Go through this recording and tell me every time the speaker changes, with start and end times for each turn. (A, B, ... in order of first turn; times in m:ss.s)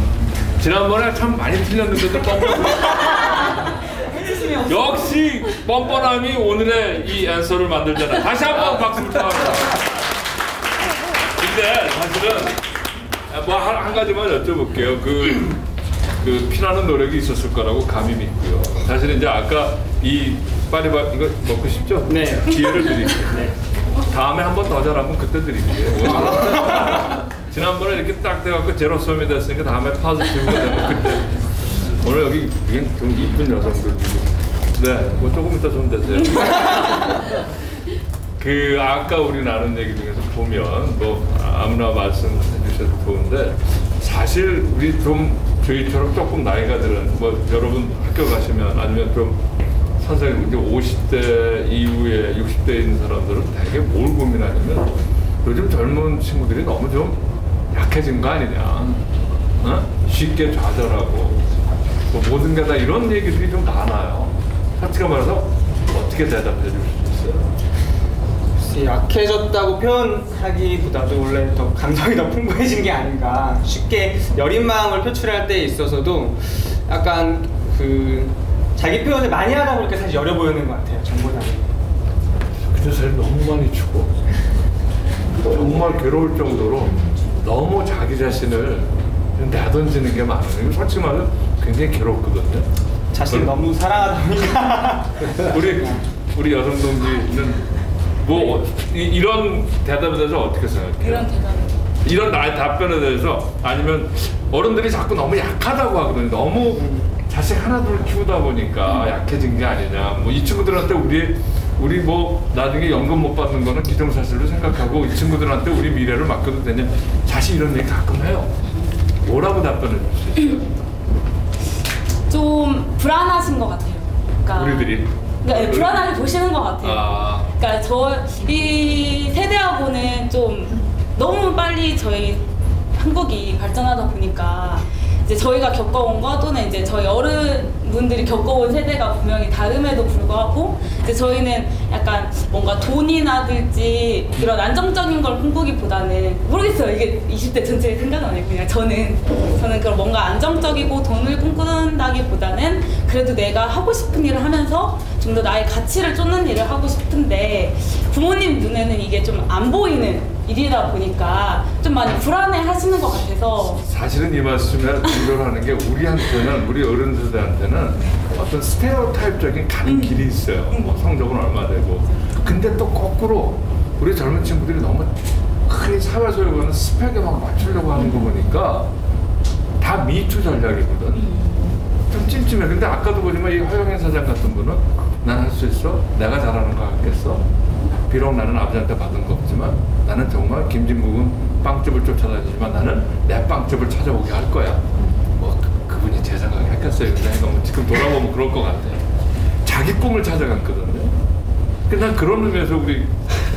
0:00.6-0:09.9 A
0:11.2-0:12.6 A
0:13.3-0:15.6 A
0:16.2-0:23.5 A
0:22.1-0:22.4 B
0:24.0-0:37.3 A
0:38.4-0:59.0 A
0:59.6-1:07.5 A
1:08.6-1:21.7 B
1:22.6-1:24.2 A
1:25.4-1:32.7 A
1:33.1-1:36.0 B
1:33.3-1:33.5 A
1:35.2-1:41.3 A
1:41.0-1:41.8 C
1:42.0-1:58.6 A
1:59.2-2:00.8 A
2:02.3-2:43.8 C
2:04.5-2:06.3 A
2:06.8-2:07.5 A
2:43.8-2:58.9 A
2:49.8-2:50.2 C
2:59.8-3:01.3 A
3:02.1-3:07.4 A
3:08.0-3:19.0 A
3:19.6-3:21.2 A
3:21.9-3:23.2 A